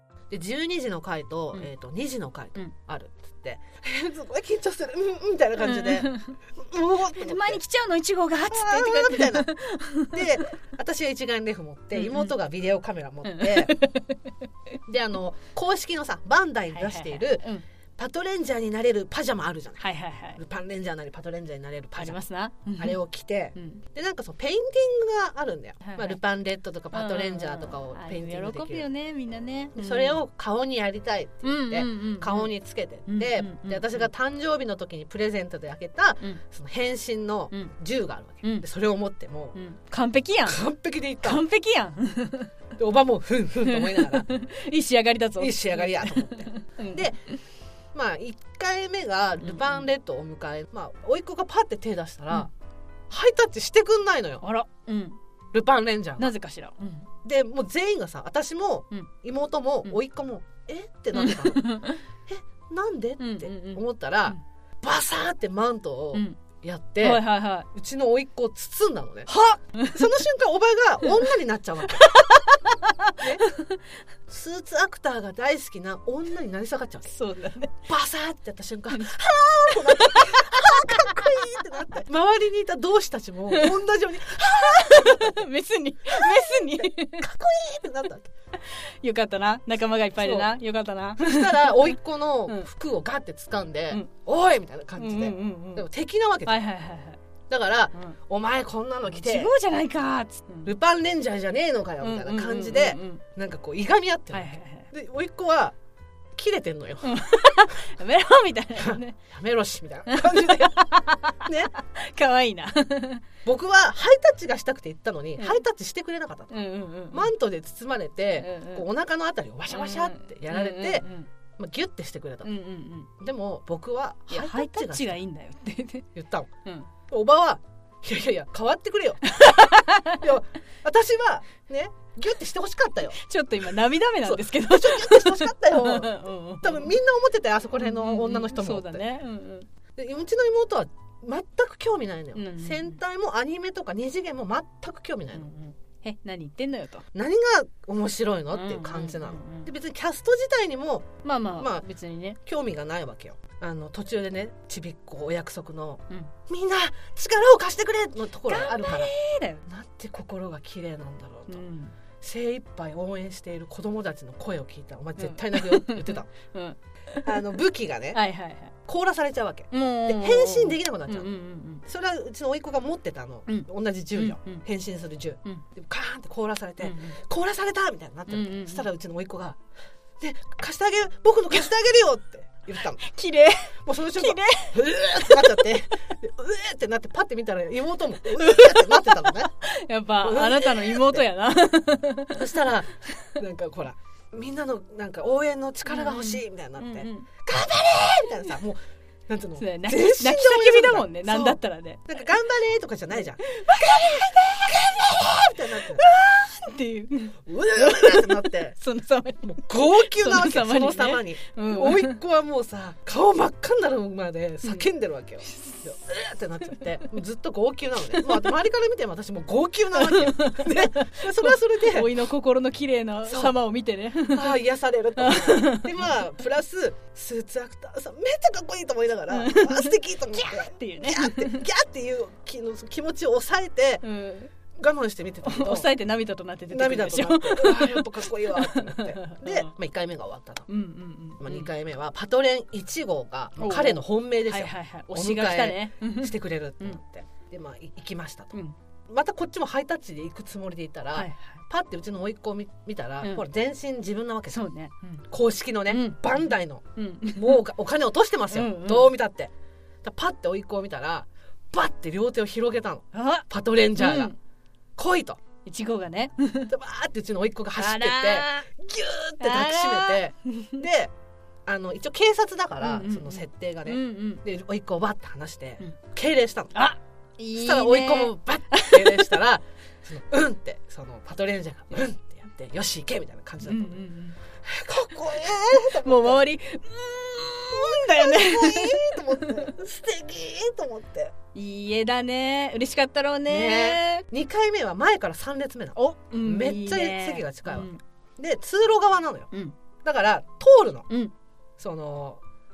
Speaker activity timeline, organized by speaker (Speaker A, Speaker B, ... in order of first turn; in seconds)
Speaker A: 0.3-7.6, 8.5-9.5, 10.1-13.7, 14.9-17.4, 18.0-19.8, 20.4-22.2, 22.8-28.9, 29.7-39.6, 40.5-41.4, 42.8-44.3, 45.4-47.2, 47.9-52.5, 53.1-54.4, 55.5-56.3, 57.2-61.7, 62.3-72.3, 73.2-73.4, 74.3-77.1, 77.9-85.4, 86.1-88.3, 90.2-90.5, 91.2-96.6, 97.5-99.5, 100.6-105.8, 106.3-107.2, 108.8-110.9, 111.4-111.7, 113.4-116.5, 117.1-122.5, 123.2-125.2, 126.1-126.5, 127.1-133.2, 134.2-139.0, 139.9-145.5, 147.1-151.8, 152.4-159.1, 159.7-161.6, 162.2-166.3, 167.2-168.2, 168.8-171.3, 171.8-179.6, 180.2-183.0, 183.8-189.5, 190.2-191.2, 192.3-206.0, 207.5-208.8, 209.4-222.1, 223.2-223.6, 224.2-234.0, 234.8-235.9, 236.7-240.7, 241.4-248.5, 249.1-254.6, 255.3-256.8, 257.3-259.5, 260.0-264.3, 265.0-265.4, 266.7-271.1, 271.6-276.9, 277.5-284.0, 284.6-286.4, 287.7-291.3, 293.5-299.5, 300.0-301.1, 301.8-302.4
Speaker B: 5.6-6.4, 7.1-10.2, 11.9-12.3, 13.2-14.3, 16.7-17.6, 19.8-20.4, 21.9-23.0, 23.5-23.8, 25.8-26.2, 26.9-30.2, 31.4-32.5, 33.0-34.1, 39.5-40.6, 41.2-42.5, 43.6-47.4, 49.4-49.9, 54.4-55.2, 56.2-57.1, 61.1-62.0, 63.2-64.4, 66.1-66.4, 67.0-67.7, 69.3-70.0, 71.9-73.8, 77.1-77.8, 79.7-81.6, 83.5-83.8, 84.4-87.3, 88.6-92.7, 95.0-95.8, 96.5-97.2, 99.1-100.7, 102.0-103.2, 104.3-104.9, 107.0-109.2, 110.1-113.2, 115.4-115.6, 116.5-117.3, 118.4-118.8, 119.7-121.3, 122.4-123.1, 124.3-126.0, 129.3-130.3, 133.1-136.9, 137.8-139.7, 142.3-143.0, 145.3-147.1, 148.5-149.7, 151.2-152.4, 158.4-159.6, 161.5-161.9, 165.2-167.4, 168.1-168.7, 169.7-171.8, 173.5-174.6, 176.8-177.2, 178.3-178.8, 183.0-185.6, 188.3-192.4, 195.9-197.3, 199.6-202.1, 203.4-212.2, 215.4-215.8, 219.9-224.6, 225.2-226.0, 229.3-231.7, 234.0-234.5, 235.4-239.7, 240.7-241.7, 243.6-247.0, 251.1-251.6, 254.5-255.2, 255.9-257.6, 258.5-259.1, 263.1-264.4, 265.6-266.7, 267.8-268.7, 269.4-270.8, 272.8-274.4, 276.7-279.4, 283.6-284.4, 286.0-289.7, 291.5-294.2, 295.9-298.0